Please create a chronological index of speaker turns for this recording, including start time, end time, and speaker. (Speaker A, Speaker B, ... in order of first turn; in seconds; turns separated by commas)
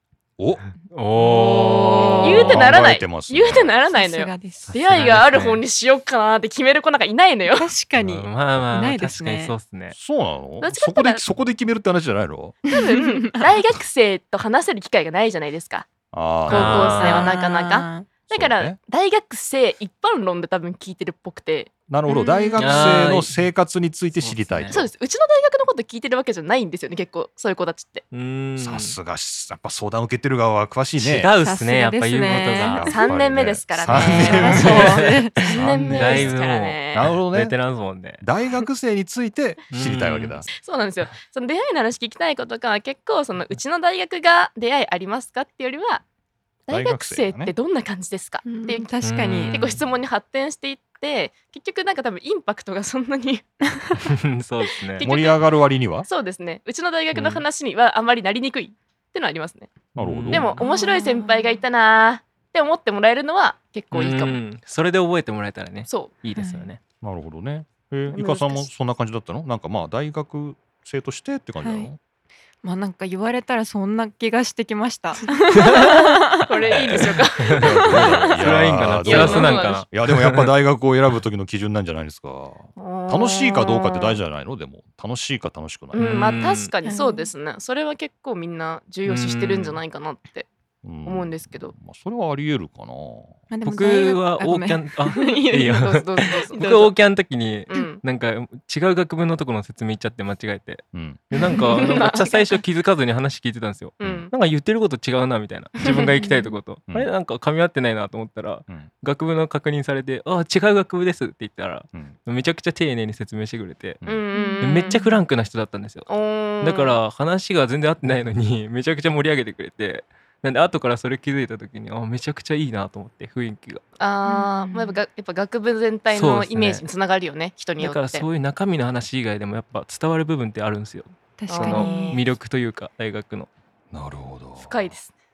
Speaker A: 0.4-0.7, Speaker B: 0.9-2.6, Speaker C: 1.2-2.6, Speaker D: 1.7-7.7, Speaker A: 2.4-3.8, Speaker C: 3.9-4.8, Speaker B: 4.7-5.6, Speaker C: 7.5-9.6, Speaker B: 8.0-9.9, Speaker A: 9.9-12.6, Speaker D: 10.6-11.2, Speaker C: 12.7-13.2, Speaker D: 12.7-15.9, Speaker A: 16.1-17.0, Speaker D: 16.5-22.8, Speaker B: 16.5-17.4, Speaker C: 16.9-18.1, Speaker A: 18.3-18.8, Speaker A: 21.9-24.9, Speaker B: 22.6-23.4, Speaker B: 24.2-24.8, Speaker D: 24.7-28.1, Speaker B: 28.1-29.0, Speaker A: 28.6-31.3, Speaker B: 31.0-32.9, Speaker C: 31.4-33.0, Speaker A: 32.7-36.3, Speaker D: 32.8-37.1, Speaker C: 33.9-35.5, Speaker B: 33.9-38.2, Speaker A: 36.9-37.6, Speaker A: 38.2-40.5, Speaker B: 39.7-40.5, Speaker D: 40.5-46.0, Speaker D: 46.7-48.9, Speaker A: 46.7-47.5, Speaker C: 48.5-49.6, Speaker B: 49.0-49.8, Speaker D: 49.5-53.5, Speaker B: 54.0-55.1, Speaker D: 54.9-55.4, Speaker A: 55.0-56.1, Speaker D: 56.1-59.7, Speaker B: 57.1-57.4, Speaker A: 60.0-60.5, Speaker B: 60.0-60.6, Speaker D: 60.3-64.4, Speaker C: 60.6-61.6, Speaker B: 63.9-66.8, Speaker D: 65.9-66.1, Speaker C: 66.4-66.7, Speaker A: 67.0-72.0, Speaker D: 68.1-68.7, Speaker C: 71.6-71.9, Speaker C: 72.6-76.5, Speaker D: 75.3-79.9, Speaker B: 75.5-76.0, Speaker B: 76.9-80.5, Speaker A: 77.5-86.2, Speaker D: 82.8-84.2, Speaker D: 85.9-90.5, Speaker B: 86.0-86.7, Speaker C: 86.9-87.3, Speaker B: 89.1-89.8, Speaker A: 90.8-93.4, Speaker D: 91.0-91.7, Speaker C: 93.5-96.9, Speaker B: 93.7-114.0, Speaker D: 95.6-96.9, Speaker D: 97.7-98.0, Speaker A: 100.9-101.2, Speaker D: 101.5-102.4, Speaker D: 104.0-104.3, Speaker A: 104.0-104.3, Speaker D: 105.8-106.2, Speaker C: 106.2-106.5, Speaker D: 114.0-115.0, Speaker C: 114.3-115.1, Speaker B: 114.6-116.1, Speaker D: 116.1-117.0, Speaker B: 116.6-123.8, Speaker D: 124.0-128.3, Speaker C: 124.2-125.0, Speaker B: 126.1-126.9, Speaker B: 127.8-133.5, Speaker C: 131.4-132.2, Speaker D: 131.5-132.2, Speaker A: 133.9-134.9, Speaker D: 134.6-135.1